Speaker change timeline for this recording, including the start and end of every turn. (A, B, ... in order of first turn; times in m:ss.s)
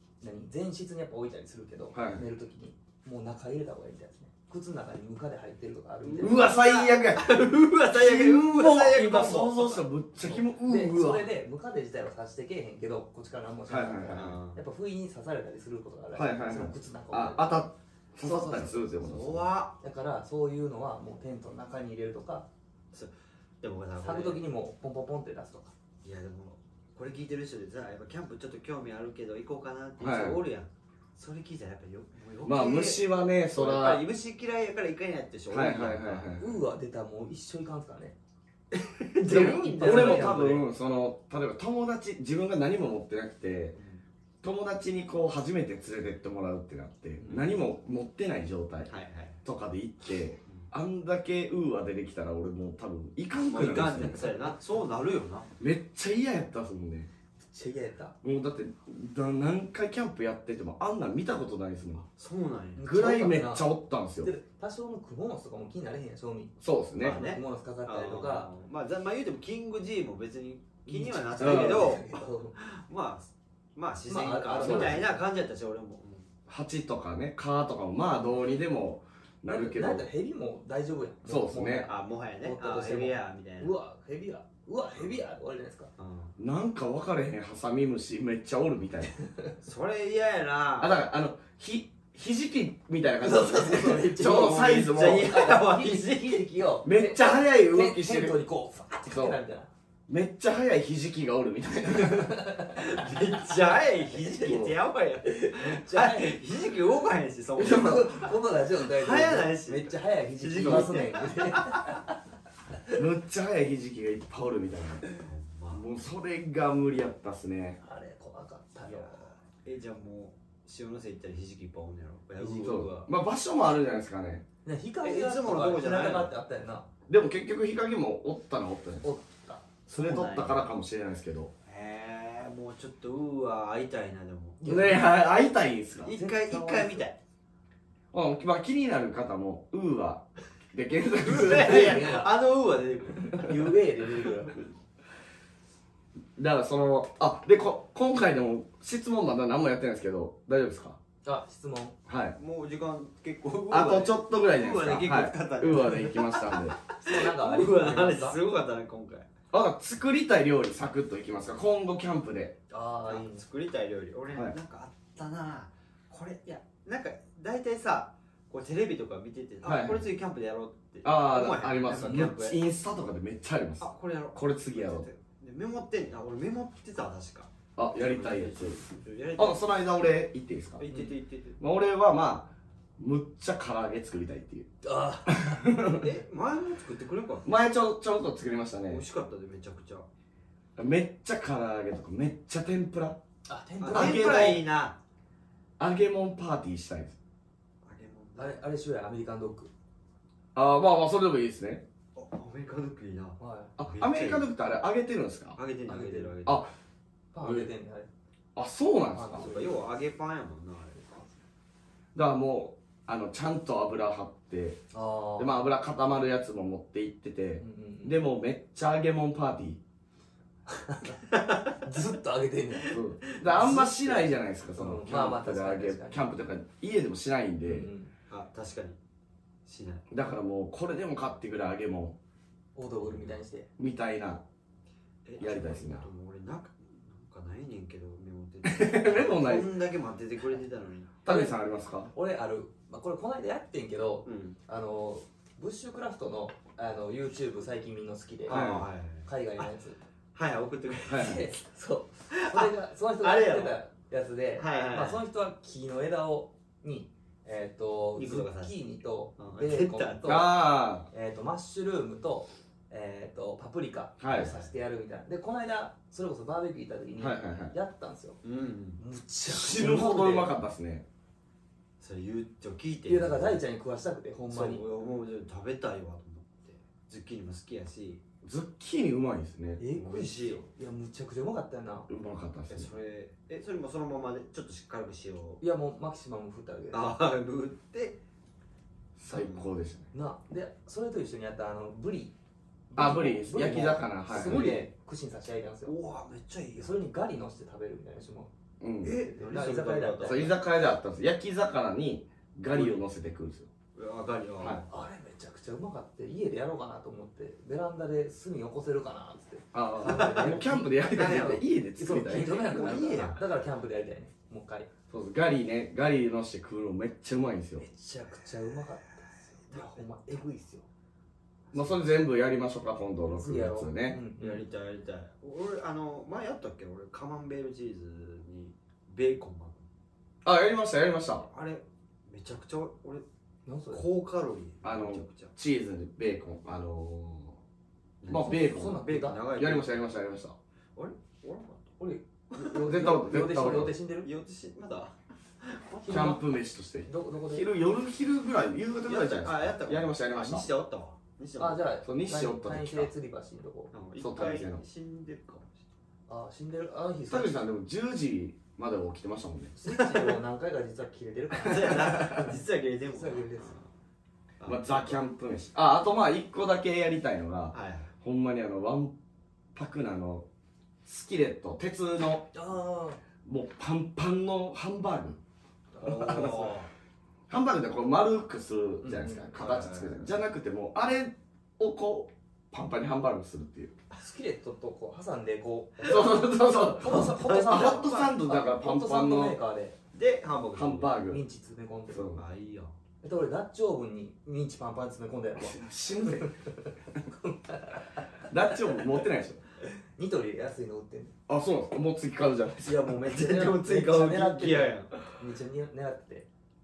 0:00.2-0:06.5 A
0:01.9-0:02.2 B
0:06.1-0:07.3 B
0:06.2-0:09.8 C
0:07.9-0:11.3 B
0:10.2-0:17.6 A
0:13.7-0:14.3 B
0:14.1-0:14.6 C
0:16.2-0:19.5 B
0:18.2-0:18.8 A
0:19.0-0:19.8 C
0:19.8-0:22.5 A
0:22.9-0:24.4 C
0:24.0-0:25.7 A
0:26.0-0:36.3 C
0:30.0-0:30.4 B
0:32.4-0:34.0 B
0:35.5-0:36.5 B
0:36.4-0:38.2 A
0:39.0-0:40.5 C
0:39.3-0:43.8 B
0:39.3-0:40.6 A
0:43.8-0:44.0 C
0:44.4-0:48.9 B
0:47.2-0:47.6 C
0:48.9-0:49.4 C
0:49.4-0:54.4 B
0:53.5-0:55.5 C
0:55.6-0:57.1 B
0:57.4-0:58.2 A
0:58.2-1:02.0 B
1:02.1-1:02.8 C
1:02.8-1:03.7 A
1:02.8-1:04.3 B
1:04.2-1:08.5 A
1:06.6-1:07.2 B
1:07.0-1:16.3 C
1:10.9-1:12.6 A
1:11.4-1:12.0 B
1:14.1-1:15.2 A
1:14.6-1:15.0 B
1:16.5-1:20.1 B
1:19.5-1:25.9 A
1:21.2-1:21.9 B
1:21.9-1:23.7 C
1:26.0-1:26.3 C
1:26.4-1:29.1 B
1:29.6-1:31.0 C
1:30.8-1:35.4 B
1:33.2-1:39.7 A
1:34.2-1:36.4 C
1:36.8-1:38.4 B
1:39.1-1:39.4 B
1:40.1-1:42.5 B
1:41.9-1:43.2 A
1:42.7-1:48.3 C
1:44.1-1:44.5 A
1:44.4-1:44.8 B
1:45.2-1:46.4 A
1:47.6-1:52.2 A
1:47.7-1:48.0 B
1:48.8-1:51.4 C
1:50.6-1:50.9 B
1:53.0-1:55.1 B
1:55.2-1:55.8 C
1:55.7-1:57.8 B
1:57.8-1:59.3 A
1:58.9-2:03.1 C
2:02.4-2:04.4 B
2:04.6-2:06.9 A
2:05.0-2:06.3 C
2:07.1-2:09.1 B
2:09.0-2:09.7 A
2:09.9-2:11.5 B
2:09.9-2:10.6 C
2:11.7-2:14.6 C
2:14.6-2:15.0 A
2:14.6-2:16.1 B
2:16.0-2:17.2 C
2:16.1-2:17.1 A
2:18.1-2:22.1 B
2:21.1-2:23.8 C
2:21.3-2:22.3 A
2:23.2-2:24.6 A
2:26.4-2:31.0 B
2:31.2-2:32.0 A
2:32.1-2:32.4 B
2:32.4-2:39.3 C
2:33.7-2:36.8 B
2:35.7-2:36.1 A
2:37.0-2:38.4 A
2:39.5-2:42.6 B
2:42.7-2:43.4 A
2:43.0-2:52.6 C
2:49.6-2:50.0 B
2:51.0-2:55.1 B
2:51.9-2:52.3 A
2:53.8-2:59.7 C
2:57.8-2:58.8 B
2:59.4-3:00.9 B
3:00.8-3:01.6 C
3:01.6-3:04.7 B
3:04.8-3:06.0 A
3:05.3-3:06.0 B
3:05.9-3:07.5 C
3:07.4-3:09.0 B
3:08.9-3:10.1 C
3:10.8-3:13.2 B
3:13.5-3:14.6 A
3:13.8-3:15.0 C
3:13.9-3:14.6 B
3:15.8-3:17.2 B
3:17.8-3:18.6 C
3:18.4-3:19.7 A
3:20.6-3:21.8 B
3:22.2-3:24.5 C
3:23.4-3:23.7 A
3:23.8-3:25.6 B
3:25.6-3:26.7 C
3:25.9-3:26.4 A
3:26.4-3:26.7 B
3:27.3-3:28.1 A
3:27.4-3:27.7 B
3:28.6-3:29.6 B
3:29.1-3:29.7 A
3:29.3-3:31.3 C
3:32.1-3:34.8 B
3:34.9-3:35.6 A
3:35.4-3:39.8 B
3:37.6-3:38.2 A
3:40.7-3:46.2 A
3:42.9-3:47.9 B
3:47.6-3:48.1 A
3:48.3-3:49.0 C
3:49.7-3:50.0 C
3:50.1-3:52.2 B
3:52.8-3:53.7 A
3:53.1-3:53.3 C
3:53.8-3:54.4 B
3:55.2-4:01.1 C
3:55.4-3:56.1 B
3:58.6-3:59.7 B
4:01.2-4:02.1 B
4:01.3-4:01.6 A
4:02.1-4:08.7 A
4:04.2-4:04.6 C
4:08.4-4:09.7 C
4:08.5-4:08.9 B
4:09.3-4:10.0 A
4:10.4-4:11.4 C
4:11.0-4:28.4 A
4:11.1-4:11.4 B
4:12.3-4:13.8 C
4:14.6-4:15.2 C
4:18.2-4:18.8 C
4:19.4-4:20.4 C
4:20.2-4:21.1 B
4:24.2-4:24.5 B
4:24.3-4:24.7 C
4:27.2-4:27.8 B
4:28.4-4:29.0 C
4:29.0-4:30.5 A
4:29.5-4:31.0 B
4:32.0-4:33.6 C
4:33.1-4:34.8 A
4:34.5-4:38.2 C
4:38.4-4:39.8 B
4:39.8-4:42.1 A
4:39.9-4:40.6 C
4:42.1-4:42.9 B
4:42.7-4:45.6 C
4:45.6-4:47.2 A
4:46.9-4:48.2 C
4:49.2-4:50.1 B
4:49.3-4:49.7 C
4:50.1-4:52.4 A
4:52.9-4:56.0 A
4:53.0-4:54.9 B
4:54.3-4:54.8 C
4:55.9-4:57.0 C
4:56.8-4:58.5 A
4:58.8-4:59.2 B
4:59.0-5:00.6 A
4:59.0-5:00.5 C
5:00.2-5:03.7 B
5:04.0-5:04.9 C
5:04.9-5:10.9 A
5:09.7-5:13.2 B
5:10.1-5:11.6 C
5:12.0-5:14.9 A
5:12.6-5:13.4 C
5:15.1-5:17.8 B
5:17.8-5:20.8 A
5:19.6-5:20.4 C
5:21.7-5:22.0 C
5:21.7-5:24.2 B
5:23.4-5:24.6 A
5:24.4-5:29.9 C
5:30.4-5:31.5 B
5:31.4-5:33.2 C
5:33.7-5:34.0 A
5:33.9-5:35.5 C
5:34.8-5:37.6 B
5:38.2-5:39.9 C
5:38.3-5:40.6 B
5:38.3-5:39.4 A
5:41.0-5:41.9 C
5:42.0-5:44.3 A
5:42.8-5:43.9 B
5:44.2-5:46.4 C
5:46.0-5:46.4 A
5:46.1-5:50.7 B
5:47.0-5:47.7 A
5:49.1-5:51.9 C
5:51.6-5:53.9 A
5:52.0-5:53.1 B
5:53.9-5:55.8 C
5:54.2-5:54.8 B
5:56.3-5:57.6 A
5:57.3-5:59.7 B
5:59.8-6:03.8 A
5:59.9-6:00.4 C
6:01.6-6:03.8 C
6:04.6-6:05.2 C
6:04.7-6:09.2 B
6:07.7-6:08.1 C
6:09.7-6:10.5 B
6:11.0-6:12.5 B
6:12.5-6:13.2 A
6:13.4-6:15.4 B
6:16.0-6:16.8 A
6:16.0-6:16.9 C
6:16.2-6:16.6 B
6:17.5-6:23.9 B
6:19.0-6:19.5 A
6:19.5-6:20.5 C
6:24.1-6:30.0 A
6:26.0-6:29.6 B
6:27.3-6:28.2 C
6:30.1-6:31.2 C
6:30.8-6:31.4 B
6:31.3-6:32.4 A
6:32.1-6:32.4 B
6:32.4-6:33.0 C
6:33.2-6:35.8 A
6:35.6-6:36.5 B
6:36.3-6:39.0 A
6:38.5-6:39.6 B
6:40.2-6:41.4 A
6:41.5-6:43.1 B
6:42.8-6:46.5 A
6:43.2-6:45.1 C